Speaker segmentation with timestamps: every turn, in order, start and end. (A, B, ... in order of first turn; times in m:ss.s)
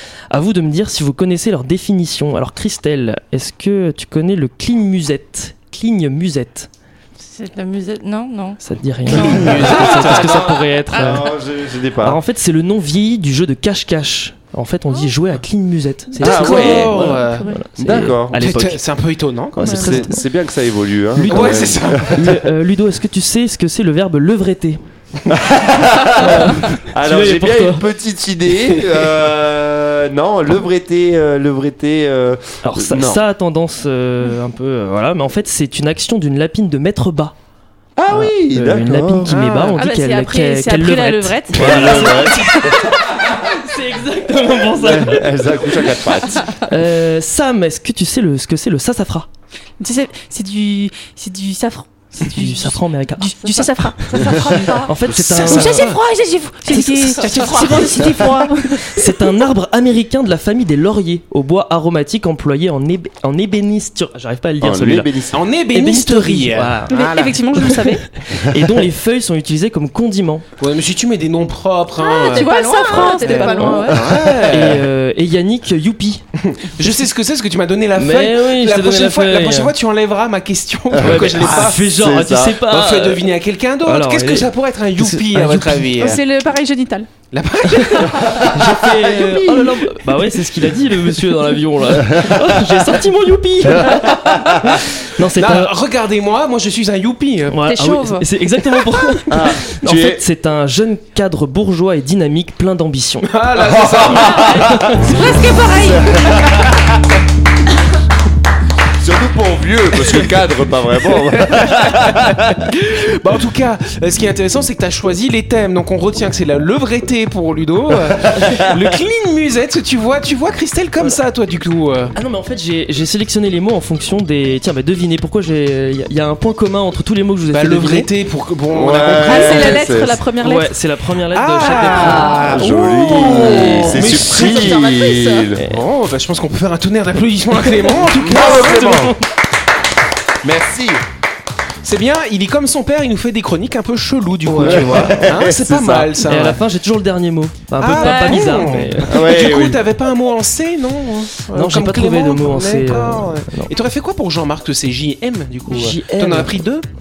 0:00.3-0:06.7 A
0:07.2-0:09.8 B
0:08.6-0:11.3 A
0:09.1-0:10.5 C
0:09.6-0:12.2 D
0:12.0-0:18.8 A
0:16.2-0:17.5 C
0:16.2-0:17.0 D
0:17.8-0:18.5 D
0:18.3-0:20.1 C
0:19.6-0:20.2 A
0:19.7-0:22.4 D
0:21.2-0:24.8 A
0:21.3-0:22.2 C
0:25.3-0:33.2 D
0:26.2-0:27.8 A
0:32.6-0:37.4 A
0:38.0-0:39.3 D
0:38.1-0:45.3 A
0:39.3-0:42.8 E
0:41.5-0:42.9 D
0:44.8-0:46.5 D
0:46.6-0:49.3 A
0:49.8-0:59.2 E
0:52.2-0:53.4 A
0:54.3-0:54.7 B
0:54.8-0:56.0 A
0:55.3-0:55.8 C
0:56.7-0:57.8 A
0:57.2-0:58.3 C
0:58.7-1:10.4 A
1:04.6-1:05.4 D
1:05.3-1:07.4 C
1:06.9-1:08.1 E
1:10.6-1:14.8 C
1:12.0-1:13.9 E
1:12.1-1:14.1 B
1:13.6-1:13.9 A
1:14.1-1:14.7 D
1:14.5-1:16.2 A
1:16.4-1:21.9 C
1:18.0-1:19.7 A
1:21.0-1:22.6 D
1:21.0-1:23.2 A
1:22.7-1:26.2 C
1:23.8-1:25.9 A
1:26.0-1:27.1 E
1:27.3-1:28.6 C
1:27.7-1:35.7 A
1:28.3-1:29.7 D
1:31.9-1:32.9 D
1:33.7-1:34.8 D
1:35.4-1:37.6 C
1:37.5-1:43.3 A
1:37.7-1:38.2 B
1:39.3-1:40.2 D
1:43.2-1:44.8 C
1:43.6-1:44.7 D
1:44.2-1:46.5 E
1:44.6-1:45.1 A
1:45.7-1:46.8 D
1:49.0-1:52.7 D
1:51.3-1:52.2 C
1:52.7-2:02.1 C
1:58.3-1:58.8 D
2:02.2-2:08.1 A
2:07.5-2:09.8 C
2:08.7-2:10.2 D
2:09.2-2:10.7 E
2:10.4-2:14.2 A
2:11.3-2:14.9 C
2:12.2-2:15.6 D
2:13.2-2:13.8 B
2:14.3-2:15.5 B
2:15.6-2:15.8 A
2:15.6-2:19.1 C
2:17.6-2:19.2 A
2:18.2-2:19.1 D
2:20.4-2:21.0 D
2:21.8-2:26.6 C
2:24.5-2:25.2 A
2:24.6-2:26.1 D
2:26.3-2:29.3 A
2:27.8-2:36.8 C
2:28.0-2:28.6 E
2:29.1-2:29.8 D
2:31.5-2:33.7 A
2:35.7-2:36.6 A